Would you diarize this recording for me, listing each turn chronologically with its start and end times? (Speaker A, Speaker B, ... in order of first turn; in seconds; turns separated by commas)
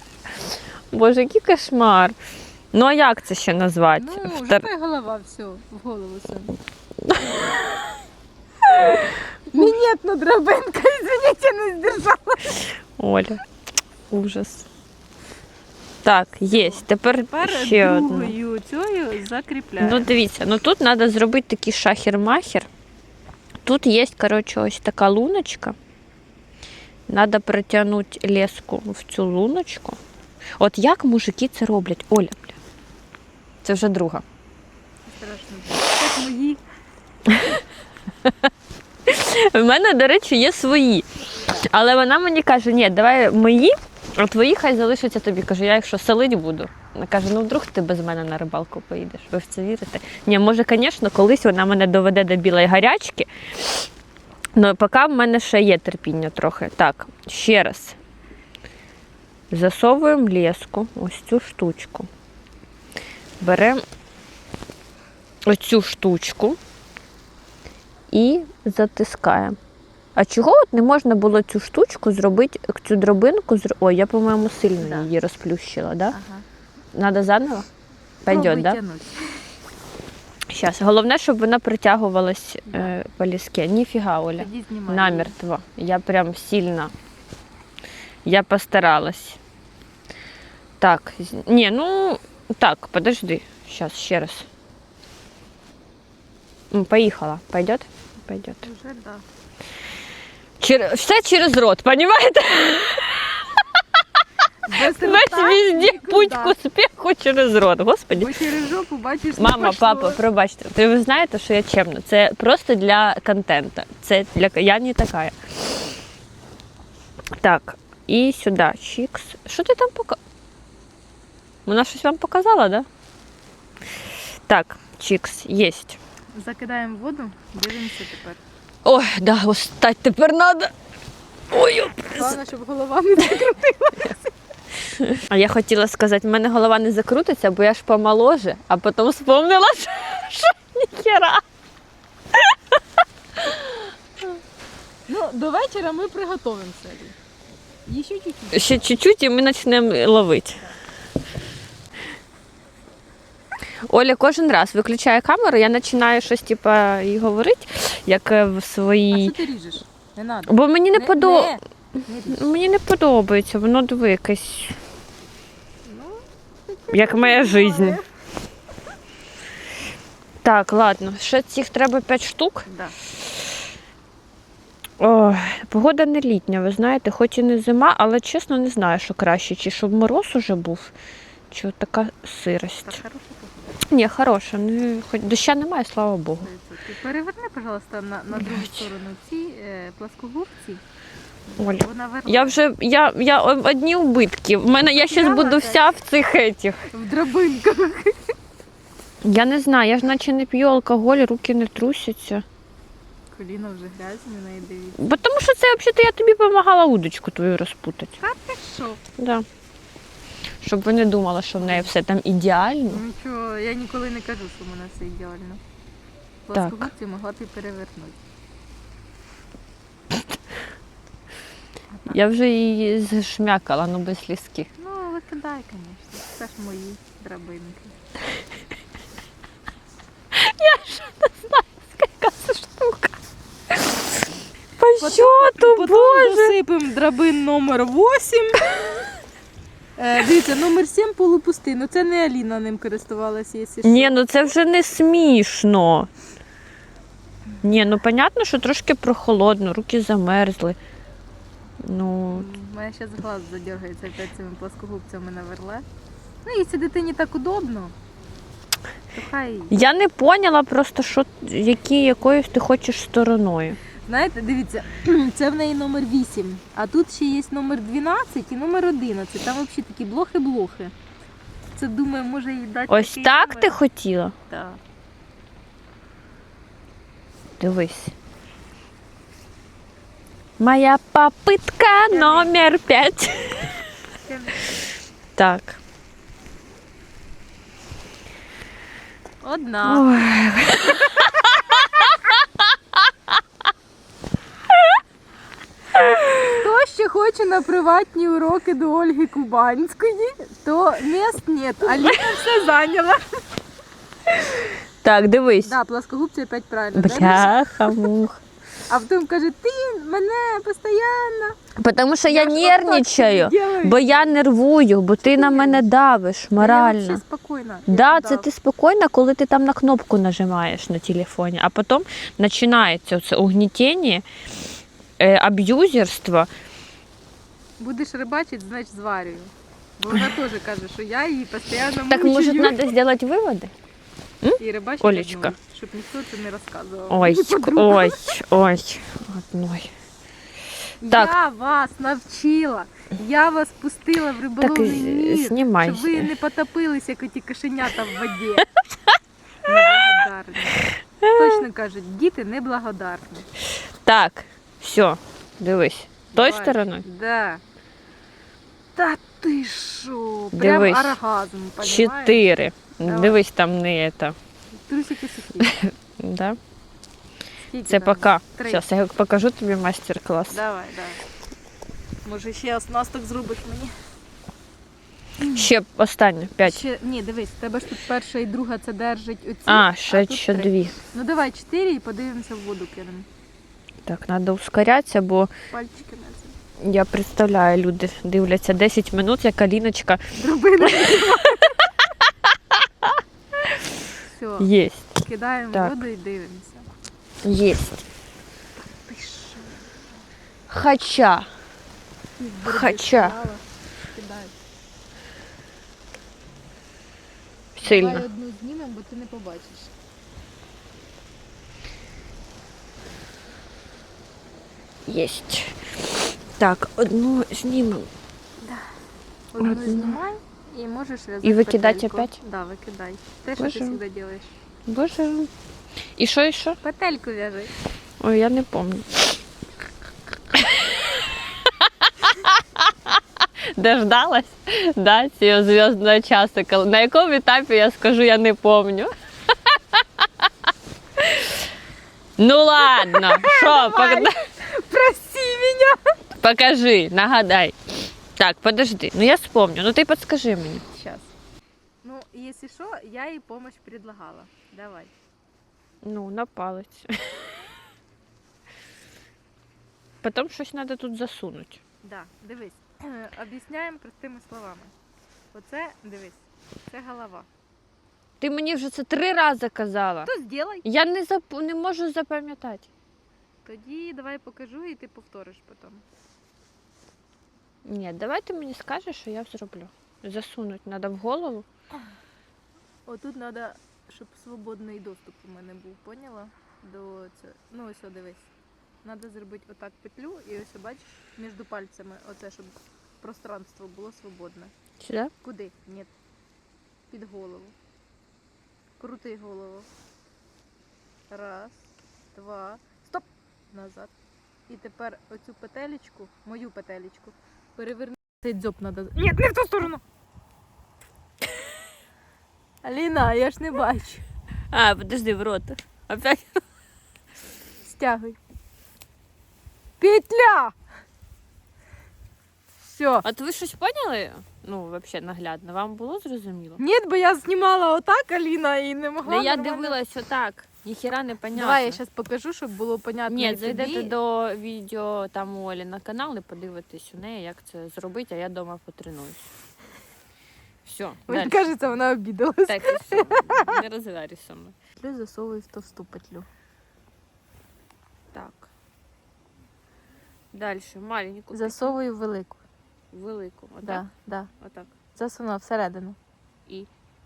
Speaker A: 0.5-2.1, Speaker A: 2.7-4.7, Speaker B: 4.0-6.5, Speaker A: 7.1-7.6, Speaker B: 8.7-12.6, Speaker A: 13.0-13.4, Speaker A: 14.1-14.7, Speaker A: 16.0-18.3, Speaker B: 16.5-20.1, Speaker A: 19.8-22.7, Speaker A: 23.6-25.8, Speaker A: 27.1-30.0, Speaker A: 30.6-32.6, Speaker A: 33.6-34.2, Speaker B: 35.0-36.6, Speaker A: 37.3-37.6, Speaker A: 38.2-38.5, Speaker A: 39.0-53.9, Speaker A: 54.5-58.0, Speaker A: 59.5-62.1, Speaker A: 63.4-63.8, Speaker A: 65.5-66.6, Speaker A: 68.1-69.6, Speaker A: 70.2-76.2, Speaker B: 74.8-75.1, Speaker B: 76.1-76.4, Speaker A: 76.9-77.7, Speaker A: 78.2-78.8, Speaker B: 78.3-79.2, Speaker A: 80.5-86.9, Speaker B: 82.7-83.0, Speaker B: 84.4-85.3, Speaker A: 88.2-89.4, Speaker A: 90.8-94.5, Speaker A: 96.7-98.7, Speaker B: 98.6-99.2, Speaker A: 100.6-103.8, Speaker B: 104.6-106.5, Speaker A: 104.7-108.4, Speaker B: 108.1-110.2, Speaker A: 109.4-115.9, Speaker A: 117.4-120.2, Speaker A: 121.7-122.9, Speaker A: 124.5-126.0, Speaker B: 126.3-128.4, Speaker A: 128.8-130.7, Speaker A: 131.5-132.4, Speaker B: 132.1-134.4, Speaker A: 134.9-141.4, Speaker A: 143.4-143.8, Speaker B: 145.1-147.2, Speaker B: 147.8-148.8, Speaker A: 148.5-150.7, Speaker A: 153.8-159.3, Speaker B: 159.1-162.5, Speaker A: 160.5-161.6, Speaker A: 162.3-164.8, Speaker B: 165.8-168.1, Speaker A: 166.9-168.0, Speaker A: 170.4-172.7, Speaker B: 172.7-172.9, Speaker A: 175.0-180.9, Speaker A: 181.5-183.0, Speaker B: 182.8-183.7, Speaker A: 183.9-186.5, Speaker B: 186.4-190.8, Speaker A: 188.3-188.9, Speaker B: 191.5-192.6, Speaker A: 191.6-196.9, Speaker B: 194.9-195.8, Speaker B: 196.9-198.3, Speaker A: 199.2-202.4, Speaker B: 203.3-205.2, Speaker A: 205.0-208.2, Speaker B: 208.2-209.0, Speaker A: 209.2-209.4, Speaker A: 210.6-213.0, Speaker B: 211.6-211.9, Speaker B: 212.9-215.6, Speaker B: 216.5-218.2, Speaker A: 216.5-216.9, Speaker B: 221.9-222.2, Speaker A: 222.1-224.7, Speaker B: 224.8-227.9, Speaker A: 230.3-233.1, Speaker A: 234.8-236.5, Speaker B: 235.0-238.7, Speaker B: 240.0-244.1, Speaker A: 243.8-246.1, Speaker A: 247.6-250.8, Speaker A: 251.8-252.5, Speaker B: 252.3-255.8, Speaker B: 256.4-257.9, Speaker B: 259.1-259.8, Speaker A: 259.7-263.8, Speaker B: 264.1-270.9, Speaker B: 271.7-273.8, Speaker A: 272.9-274.3, Speaker B: 274.5-274.8, Speaker A: 277.6-278.1, Speaker A: 280.6-283.9, Speaker B: 282.1-282.5, Speaker B: 284.2-284.6, Speaker A: 285.4-285.8, Speaker B: 289.4-290.2, Speaker A: 289.8-292.1, Speaker A: 295.9-296.6, Speaker B: 296.5-303.4, Speaker A: 304.7-305.8, Speaker B: 305.6-308.1, Speaker A: 306.9-308.4, Speaker B: 308.9-311.6, Speaker A: 311.8-317.2, Speaker B: 312.2-314.4, Speaker B: 315.2-315.9, Speaker B: 316.6-318.5, Speaker A: 317.9-324.2, Speaker A: 325.2-326.5, Speaker B: 327.8-332.9, Speaker A: 332.1-333.7, Speaker A: 334.4-335.5, Speaker B: 334.6-338.2, Speaker A: 337.1-339.9, Speaker B: 341.0-348.6, Speaker A: 344.6-346.3, Speaker B: 349.6-353.5, Speaker A: 351.2-351.6, Speaker A: 354.0-357.0, Speaker B: 356.3-357.6, Speaker B: 358.9-362.5, Speaker A: 360.5-361.2, Speaker A: 361.8-364.4, Speaker B: 363.0-363.4, Speaker B: 364.7-365.8, Speaker A: 365.6-366.6, Speaker B: 367.7-368.8, Speaker A: 367.9-370.6, Speaker B: 370.5-371.2, Speaker B: 372.2-373.9, Speaker B: 375.4-375.7, Speaker A: 375.5-376.8, Speaker B: 376.6-383.3, Speaker A: 379.7-380.9, Speaker A: 384.1-385.5, Speaker B: 385.7-386.6, Speaker A: 386.8-390.2, Speaker B: 390.4-391.7, Speaker A: 390.8-391.7, Speaker A: 392.7-393.8, Speaker B: 394.2-394.7, Speaker A: 394.6-395.2, Speaker B: 395.2-396.9, Speaker A: 395.7-396.0, Speaker A: 397.4-398.0, Speaker B: 398.8-400.1, Speaker A: 400.7-401.5, Speaker B: 402.4-404.5, Speaker A: 402.6-403.4, Speaker A: 407.7-408.2, Speaker B: 407.8-409.9, Speaker A: 415.1-418.1, Speaker B: 418.6-418.9, Speaker B: 419.5-424.6, Speaker A: 419.6-420.2, Speaker A: 421.4-422.4, Speaker A: 423.6-424.0, Speaker A: 424.9-425.5, Speaker A: 426.2-426.8, Speaker B: 426.8-427.7, Speaker A: 428.2-429.4, Speaker A: 430.5-433.2, Speaker A: 433.8-440.2, Speaker A: 441.2-441.6, Speaker A: 442.4-444.4, Speaker B: 442.8-446.1, Speaker A: 446.4-447.8, Speaker A: 448.4-450.8, Speaker B: 450.9-451.3, Speaker B: 452.0-455.1, Speaker A: 456.0-457.6, Speaker A: 460.2-461.8, Speaker B: 462.0-464.9, Speaker B: 465.5-467.5, Speaker A: 468.4-470.3, Speaker B: 470.2-470.9, Speaker A: 470.8-472.9, Speaker B: 473.6-476.0, Speaker A: 477.8-481.7, Speaker B: 483.1-488.5, Speaker B: 489.0-494.7, Speaker A: 495.0-495.3, Speaker B: 495.4-496.1, Speaker B: 497.1-497.7, Speaker B: 499.0-499.9, Speaker B: 501.3-504.1, Speaker B: 504.7-510.0, Speaker B: 512.8-514.2, Speaker A: 514.7-516.6, Speaker B: 517.8-518.4, Speaker B: 520.0-520.8, Speaker B: 522.8-523.2, Speaker A: 523.2-526.8, Speaker B: 526.8-530.0, Speaker A: 529.2-532.0, Speaker B: 531.5-534.1, Speaker A: 533.3-539.5, Speaker A: 540.8-541.6, Speaker B: 541.3-543.8, Speaker A: 542.7-544.7, Speaker B: 545.0-546.5, Speaker A: 548.3-548.7, Speaker A: 550.5-551.9, Speaker B: 551.5-552.6, Speaker A: 553.1-554.0, Speaker B: 553.8-554.5, Speaker A: 554.6-555.0, Speaker B: 555.1-556.2